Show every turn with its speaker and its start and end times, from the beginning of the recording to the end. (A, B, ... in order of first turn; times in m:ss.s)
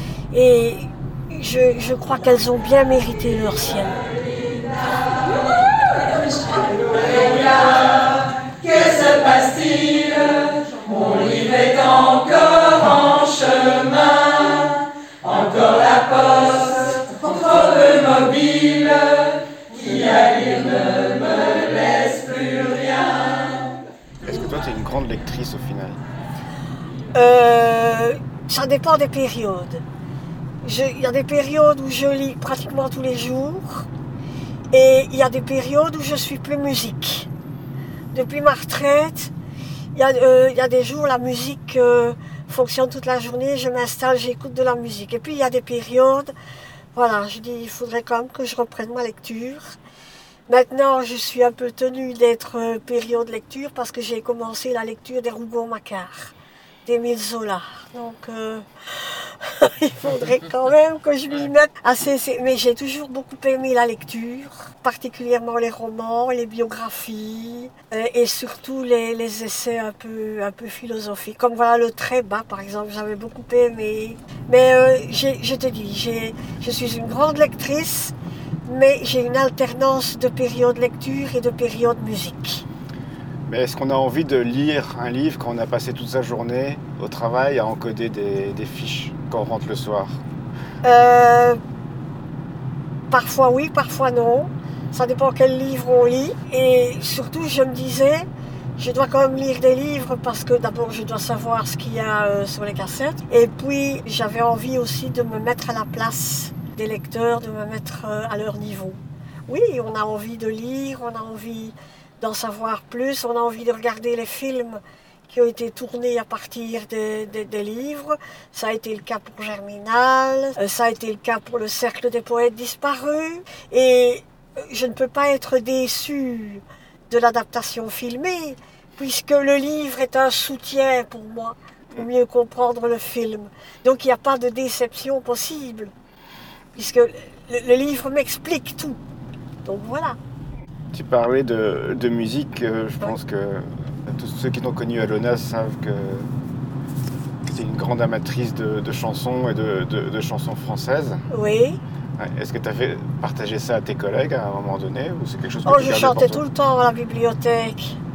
0:00.3-0:04.0 A
0:06.5-0:23.6 B
0:24.2-0:26.0 C
0:27.2-0:29.8 A
0:30.6-0:33.9 A
0:34.7-0:37.3 A
0:38.1-0:39.3 A
0:40.0-0:46.3 A
0:46.9-0:49.7 A
0:50.5-0:56.3 A
0:56.9-1:18.2 A
1:18.7-1:22.6 A
1:23.5-1:30.2 C
1:30.8-1:31.6 A
1:33.1-1:38.3 A
1:38.8-2:15.9 A
2:16.8-2:19.0 A
2:19.6-2:20.2 A
2:20.9-2:26.3 C
2:27.5-2:31.2 C
2:31.3-2:31.8 A
2:32.2-2:36.4 C
2:35.7-2:38.0 A